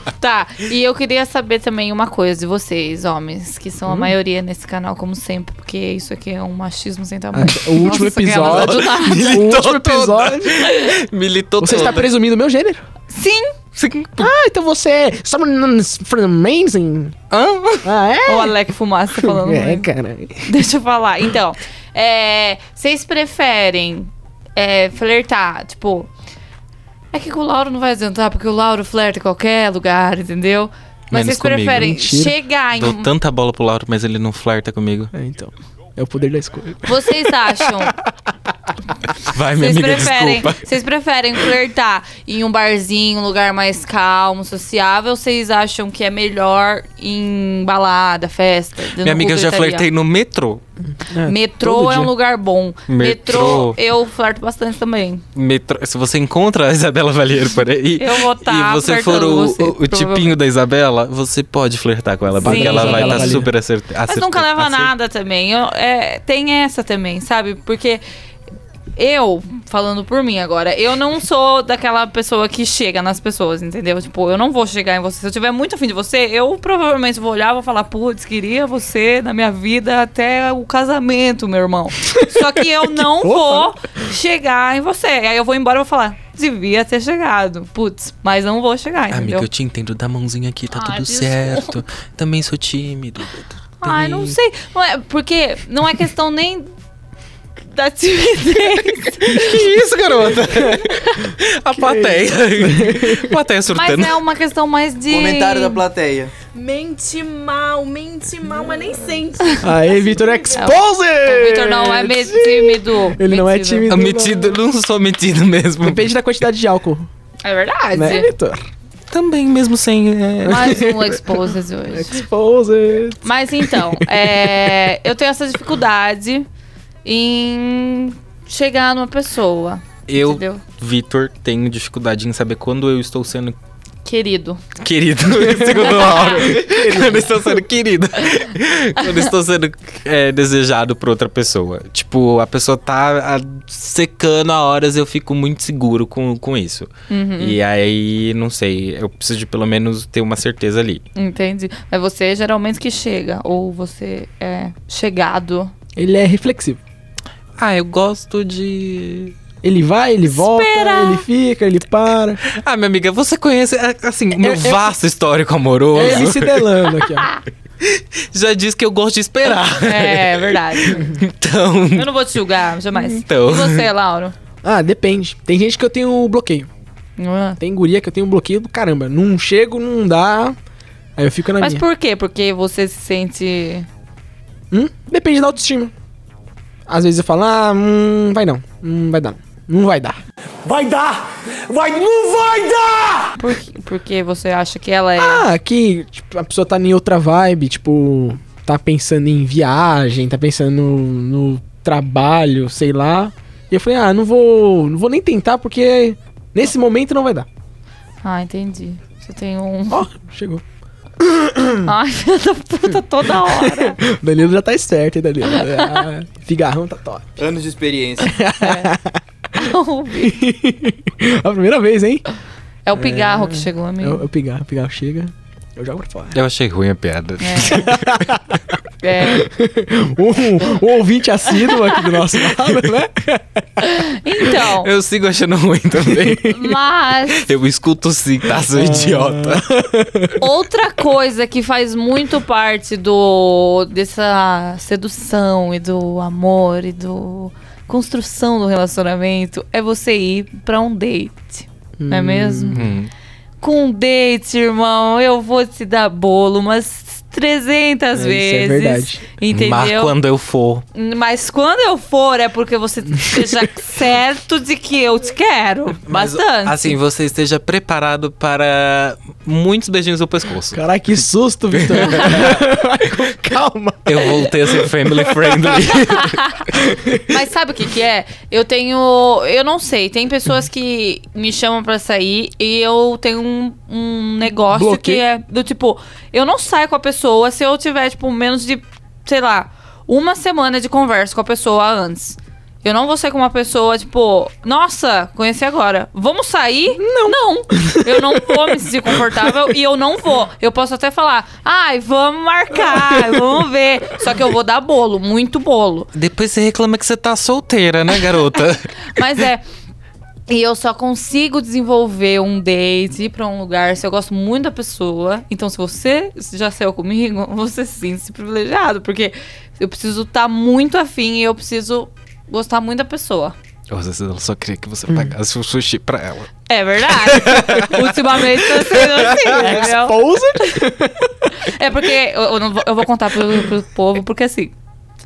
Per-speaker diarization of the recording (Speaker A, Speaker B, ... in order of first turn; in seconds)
Speaker A: 0.2-9.4, 13.1-13.5, 18.2-19.9, 20.4-26.1, 27.1-33.1, 36.8-37.9, 39.5-49.9, 51.2-55.2, 58.0-60.3, 62.4-63.4, 64.1-68.0, 69.0-89.5, 90.7-91.8, 93.8-96.7, 97.7-99.6, 101.0-101.3, 103.7-105.8, 110.5-113.9, 117.4-118.3, 120.5-122.2, 123.2-126.5, 127.0-130.6, 134.0-134.6, 135.8-136.5, 147.1-147.6, 151.1-155.7, 160.2-161.2, 169.8-171.1, 171.9-174.3, 177.2-177.6, 181.6-183.9, 193.4-195.5, 208.2-210.0, 211.8-214.0, 215.7-216.0, 218.6-218.9, 219.5-220.4, 222.8-224.2, 227.4-227.9, 229.0-229.5, 231.6-232.0, 233.8-234.9, 236.4-237.5, 240.4-252.9, 253.6-260.1, 260.9-266.9, 276.1-276.6, 277.2-306.1, 309.1-309.6, 310.5-323.5, 326.7-330.8, 331.5-334.7
Speaker B: 3.9-4.1, 7.3-10.7, 11.6-12.8, 14.2-17.2, 17.8-18.6, 19.1-20.5, 31.7-32.3, 35.1-38.0, 51.1-52.1, 62.4-63.5, 82.1-83.7, 100.5-100.8, 101.7-103.3, 109.6-114.6, 115.8-117.1, 117.9-118.6, 120.4-121.2, 121.9-124.8, 135.3-137.6, 155.9-156.8, 159.6-162.4, 164.4-164.9, 165.9-167.3, 174.6-176.7, 177.6-180.6, 181.2-181.8, 184.7-185.9, 186.9-190.2, 195.2-207.5, 209.9-210.6, 211.2-211.9, 213.4-217.4, 218.2-219.6, 220.2-222.2, 222.9-226.4, 227.7-228.6, 229.2-233.7, 236.0-236.5, 238.7-240.4, 252.0-252.9, 258.1-259.2, 270.7-275.9, 276.7-277.2, 284.7-285.2, 296.9-299.5, 302.9-303.3, 329.0-331.5
Speaker C: 7.9-12.1, 13.8-14.3, 17.3-17.9, 31.1-31.9, 32.8-35.1, 39.2-40.6, 49.0-50.6, 52.9-53.8, 55.4-64.9, 89.1-94.3, 99.3-104.2, 113.9-116.1, 119.1-120.9, 130.1-133.6, 134.8-151.0, 157.6-159.3, 162.5-166.8, 167.8-172.1, 172.9-173.9, 226.3-228.2, 234.6-236.6, 237.3-239.7, 252.7-253.1, 259.5-260.8, 266.1-270.8, 271.7-272.6, 274.1-276.4, 306.1-308.9, 323.9-326.5, 327.1-328.1, 329.0-329.7
Speaker D: 105.1-106.3, 190.6-193.3, 217.4-218.4
Speaker E: 106.5-110.7